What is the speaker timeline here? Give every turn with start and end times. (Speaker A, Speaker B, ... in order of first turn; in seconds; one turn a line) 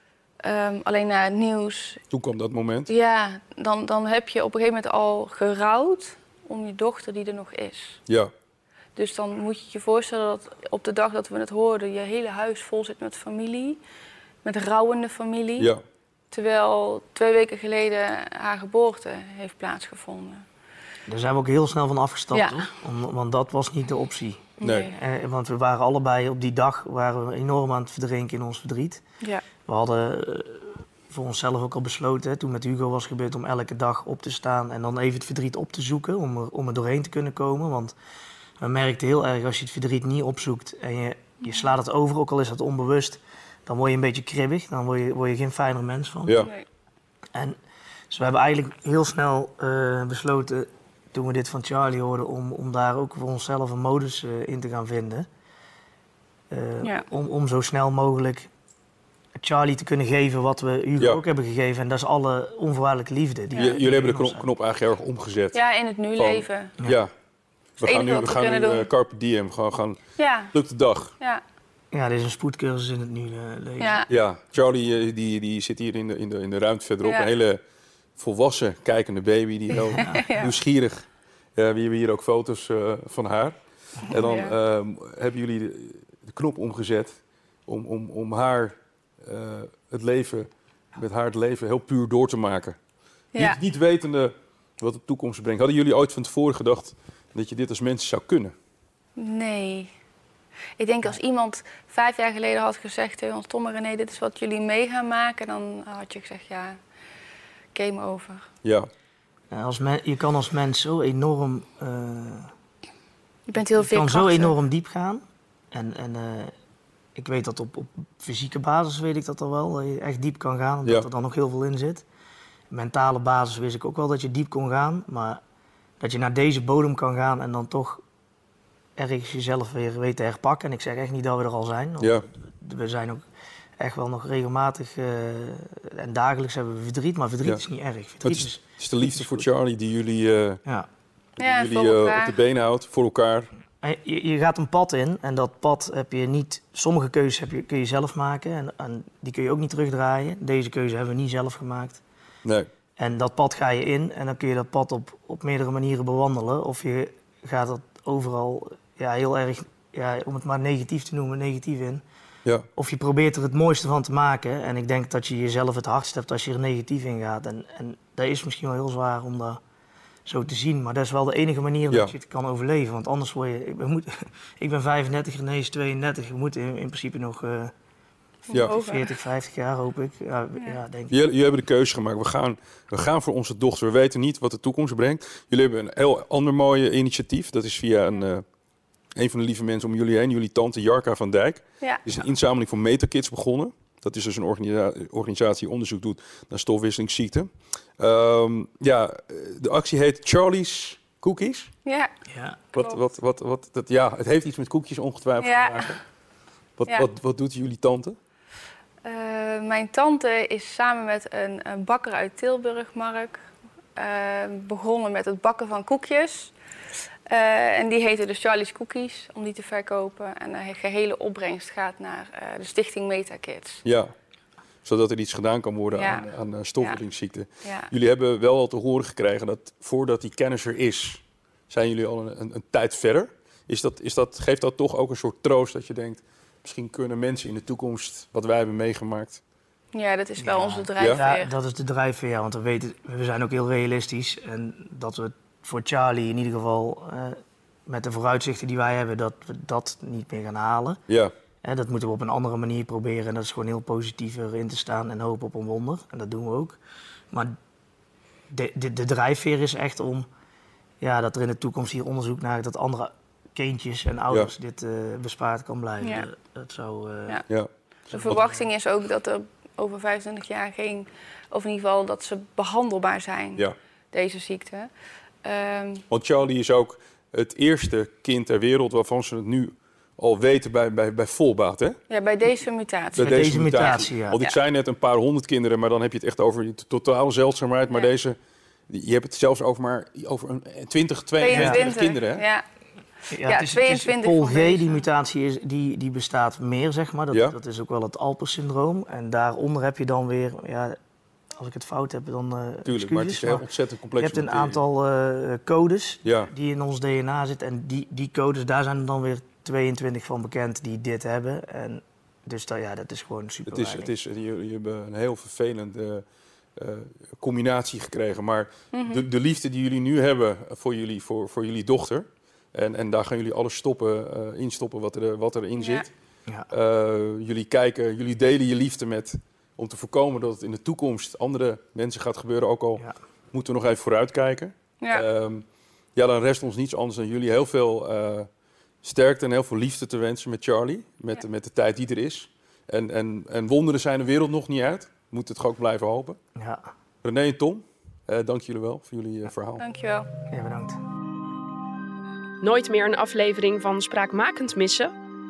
Speaker A: 0.4-2.0
Speaker B: 2.1-2.9
Speaker A: 2.9-8.0
Speaker A: 8.9-13.8
Speaker A: 14.4-15.7
Speaker A: 16.3-20.4
Speaker C: 21.1-29.0
Speaker A: 22.3-22.7
Speaker A: 24.6-24.9
Speaker B: 24.6-24.9
Speaker C: 29.6-37.9
Speaker C: 38.6-46.5
Speaker B: 46.2-46.5
Speaker A: 46.4-46.6
Speaker C: 48.1-55.2
Speaker C: 56.5-58.5
Speaker C: 59.4-64.5
Speaker B: 63.6-65.6
Speaker A: 65.5-66.7
Speaker B: 66.2-67.1
Speaker A: 67.8-68.9
Speaker B: 67.8-70.0
Speaker A: 70.2-70.5
Speaker B: 70.5-71.1
Speaker C: 71.9-74.0
Speaker A: 73.8-74.1
Speaker B: 74.1-77.6
Speaker A: 77.0-77.3
Speaker B: 78.2-81.0
Speaker C: 79.7-80.3
Speaker A: 79.8-80.5
Speaker B: 81.5-83.5
Speaker B: 84.1-87.1
Speaker A: 84.1-84.5
Speaker B: 87.7-92.8
Speaker A: 93.3-93.6
Speaker B: 93.3-98.5
Speaker A: 99.2-99.9
Speaker A: 100.8-106.8
Speaker A: 107.7-108.5
Speaker C: 109.5-112.5
Speaker A: 113.5-114.5
Speaker C: 113.6-116.5
Speaker C: 117.2-122.0
Speaker C: 122.7-125.4
Speaker C: 126.0-128.0
Speaker C: 129.0-133.2
Speaker B: 132.0-132.2
Speaker C: 133.8-139.5
Speaker B: 138.2-140.6
Speaker B: 141.4-143.5
Speaker A: 141.4-142.4
Speaker C: 143.8-152.0
Speaker C: 153.0-162.0
Speaker C: 162.8-169.6
Speaker C: 170.2-177.7
Speaker A: 178.5-179.1
Speaker C: 178.5-181.2
Speaker B: 181.1-188.4
Speaker B: 189.2-197.5
Speaker B: 198.0-201.7
Speaker A: 201.8-202.1
Speaker C: 202.3-202.6
Speaker A: 202.7-203.0
Speaker B: 202.8-206.0
Speaker A: 205.4-205.9
Speaker B: 206.8-208.2
Speaker A: 209.0-213.4
Speaker A: 213.9-216.5
Speaker A: 217.3-223.8
Speaker B: 223.8-224.1
Speaker B: 224.8-239.4
Speaker A: 225.9-226.3
Speaker A: 227.6-227.9
Speaker A: 239.9-241.5
Speaker C: 240.4-251.0
Speaker B: 241.0-241.2
Speaker C: 251.6-256.8
Speaker C: 258.5-260.3
Speaker C: 261.0-267.4
Speaker A: 266.0-266.3
Speaker C: 268.1-268.6
Speaker A: 268.1-274.9
Speaker A: 275.4-276.0
Speaker B: 276.1-282.0
Speaker A: 282.1-284.6
Speaker B: 283.1-288.4
Speaker C: 283.2-284.4
Speaker B: 288.9-292.4
Speaker A: 291.4-292.6
Speaker C: 291.5-291.9
Speaker C: 293.3-301.0
Speaker A: 293.3-295.0
Speaker B: 297.3-297.6
Speaker C: 301.6-303.6
Speaker B: 302.9-304.8
Speaker C: 304.2-314.1
Speaker B: 306.2-306.5
Speaker B: 313.6-316.2
Speaker B: 316.8-326.1
Speaker A: 318.9-319.2
Speaker A: 325.8-326.1
Speaker B: 326.7-335.6
Speaker A: 335.0-335.2
Speaker B: 336.1-338.5
Speaker B: 339.0-346.4
Speaker C: 346.6-346.8
Speaker B: 347.2-349.8
Speaker A: 349.8-350.3
Speaker C: 350.5-351.0
Speaker D: 352.6-355.1